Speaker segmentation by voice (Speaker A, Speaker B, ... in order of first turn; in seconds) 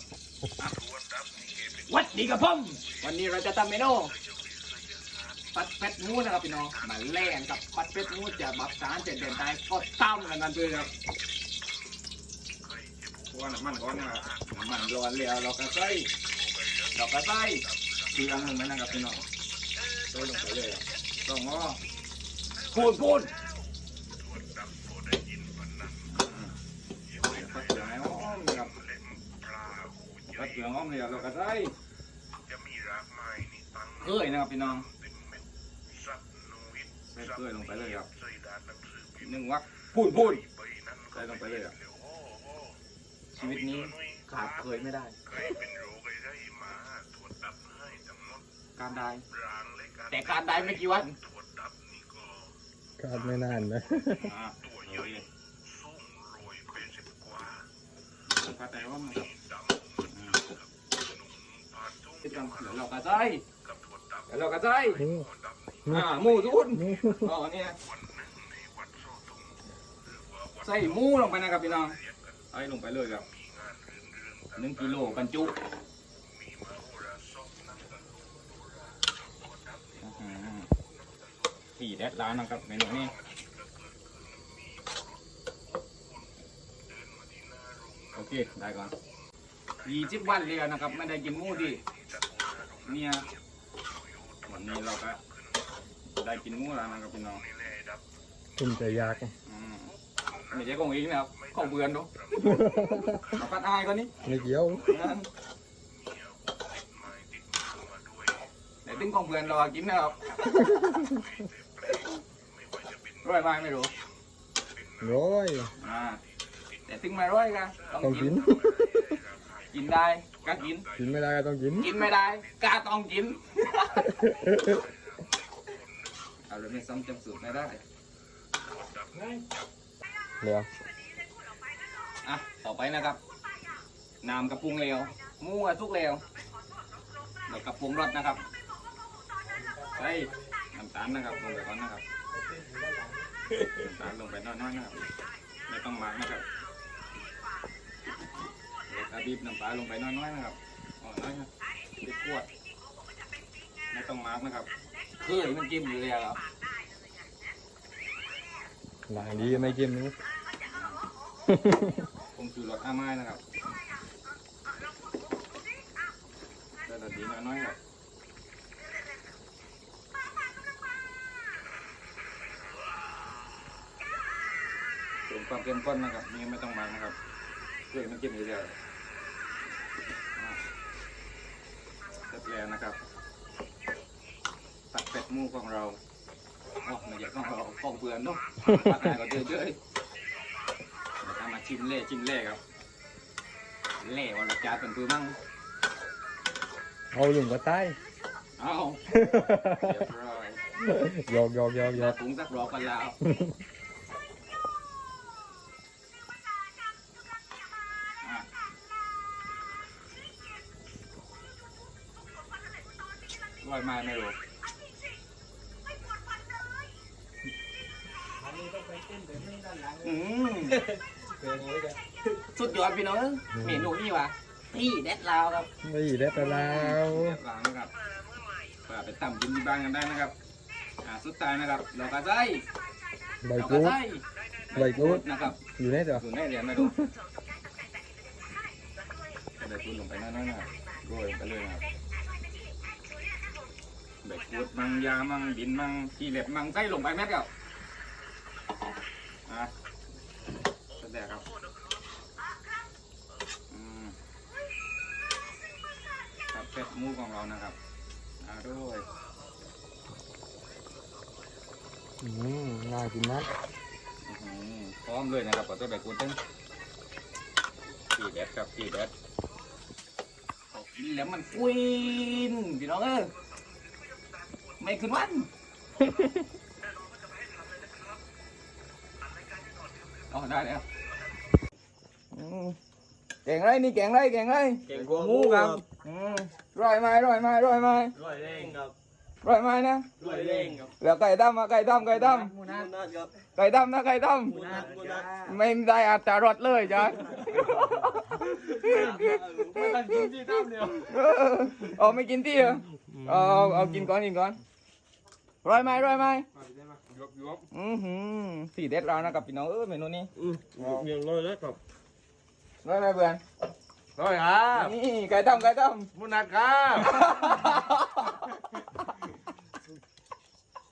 Speaker A: 1.9-4.1, 5.5-10.9, 13.3-16.1, 16.9-19.2, 20.1-21.8, 22.7-23.3, 26.1-26.5, 27.2-28.8, 30.3-31.7, 34.0-34.9, 37.1-38.1, 39.2-40.5, 41.1-41.7, 43.3-45.1, 48.8-49.2, 50.1-51.1, 54.2-55.2, 58.3-59.3, 60.1-60.4, 62.2-63.4, 64.3-65.0, 65.9-67.8, 70.6-72.0, 72.5-73.3, 74.5-75.6, 80.0-80.7, 81.8-83.1, 88.2-88.9, 89.8-91.8, 92.8-93.2, 94.5-95.2, 96.2-97.4, 99.5-99.9, 100.5-102.1, 103.3-104.1, 104.8-105.3, 108.8-110.8, 113.2-113.9, 115.8-116.2, 116.9-118.6, 119.7-120.9, 121.8-124.1, 126.5-127.8, 132.2-133.2, 134.2-136.2, 137.5-138.4, 139.9-142.0, 143.7-145.0, 145.7-146.4, 148.9-151.5, 152.0-152.5, 153.9-156.4, 159.1-159.8, 160.7-161.0, 162.4-163.4, 166.8-167.8, 175.3-177.2, 177.9-178.8, 182.3-183.0, 184.9-186.0, 186.8-189.8, 191.2-192.6, 194.0-195.4, 198.6-200.6, 201.9-203.2, 213.6-214.3, 220.0-220.8, 222.5-225.7, 226.3-227.9, 228.9-230.3, 231.0-232.6, 233.6-237.0, 239.6-241.9, 244.2-247.5, 249.5-249.7, 251.0-251.4, 253.7-254.2, 256.5-257.8, 258.4-259.1, 264.3-266.4, 268.1-269.1, 270.7-273.3, 274.8-275.5, 280.3-280.9, 282.3-282.8, 283.4-288.1, 289.4-290.1, 291.0-292.5, 293.6-294.7, 295.4-298.1, 300.9-304.6, 305.6-306.5, 307.7-310.3, 312.8-313.4, 314.7-316.1, 317.0-318.5
Speaker B: 53.0-54.3, 65.0-65.3, 65.9-66.1, 66.7-67.3, 98.6-99.3, 102.4-103.2, 104.2-105.0, 110.8-111.1, 115.0-115.7, 118.0-119.0, 121.0-122.0, 124.0-124.8, 130.4-130.7, 139.6-140.5, 141.2-141.6, 142.3-143.3, 159.1-160.2, 161.5-162.1, 197.1-198.0, 199.1-200.0, 200.8-202.2, 203.2-203.5, 221.4-221.8, 223.5-223.9, 225.8-227.4, 233.4-234.0, 234.7-236.2, 262.2-263.5, 300.0-300.9
Speaker C: 218.6-219.9, 284.9-285.8, 288.2-288.9, 290.2-290.9, 292.4-293.3, 294.5-295.4, 298.5-300.9, 306.6-307.6, 310.6-311.2, 314.2-314.9, 316.1-317.3
Speaker D: 284.9-285.8, 288.2-288.9, 290.2-290.9, 292.2-293.3, 294.5-295.4, 298.6-300.3, 310.4-311.8, 314.2-314.8, 316.4-316.9